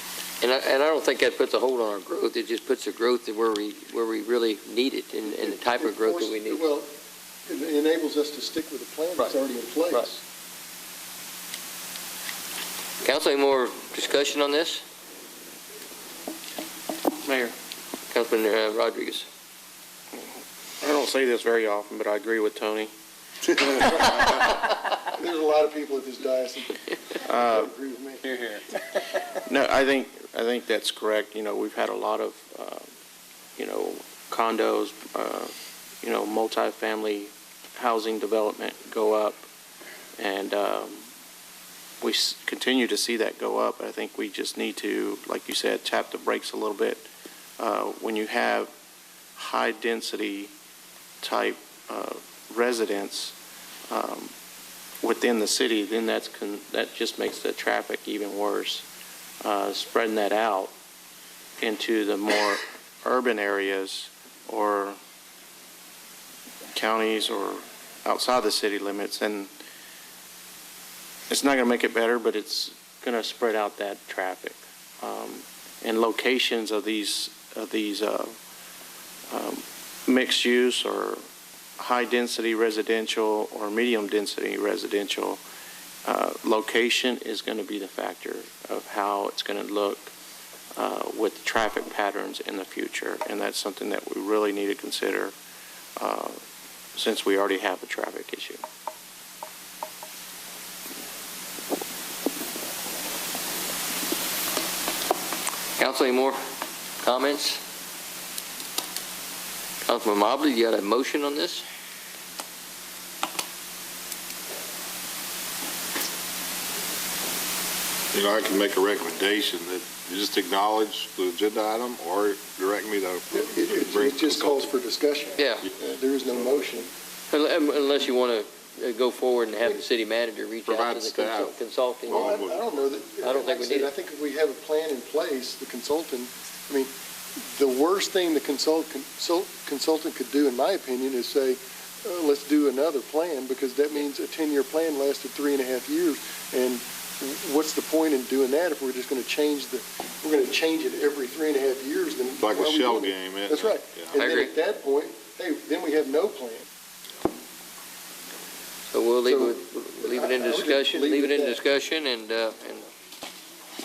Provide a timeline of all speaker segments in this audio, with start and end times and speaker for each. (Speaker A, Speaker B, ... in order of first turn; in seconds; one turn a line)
Speaker A: 0.4-6.6
Speaker B: 5.3-6.9
Speaker B: 7.5-10.2
Speaker A: 13.0-14.8
Speaker C: 17.2-17.6
Speaker A: 18.1-19.3
Speaker C: 20.1-22.9
Speaker B: 23.8-28.4
Speaker C: 27.2-27.7
Speaker C: 29.3-32.9
Speaker C: 33.6-39.5
Speaker C: 40.2-41.1
Speaker C: 42.0-47.0
Speaker C: 47.6-48.7
Speaker C: 49.4-50.5
Speaker C: 51.2-53.4
Speaker C: 53.9-54.3
Speaker C: 55.0-58.9
Speaker C: 59.4-60.7
Speaker C: 61.6-65.0
Speaker C: 66.7-69.5
Speaker C: 71.3-78.3
Speaker C: 79.3-81.2
Speaker C: 81.8-85.4
Speaker C: 86.0-90.1
Speaker C: 90.8-95.3
Speaker C: 96.0-96.4
Speaker C: 97.0-98.6
Speaker A: 105.8-106.4
Speaker A: 107.0-107.6
Speaker A: 109.9-111.7
Speaker D: 118.1-124.7
Speaker B: 123.3-126.9
Speaker A: 125.4-125.7
Speaker A: 127.3-132.4
Speaker D: 130.7-131.5
Speaker D: 132.1-132.9
Speaker B: 132.1-136.9
Speaker A: 133.2-133.9
Speaker B: 137.5-156.7
Speaker D: 152.4-154.2
Speaker A: 154.2-154.5
Speaker A: 158.9-162.9
Speaker B: 159.2-161.6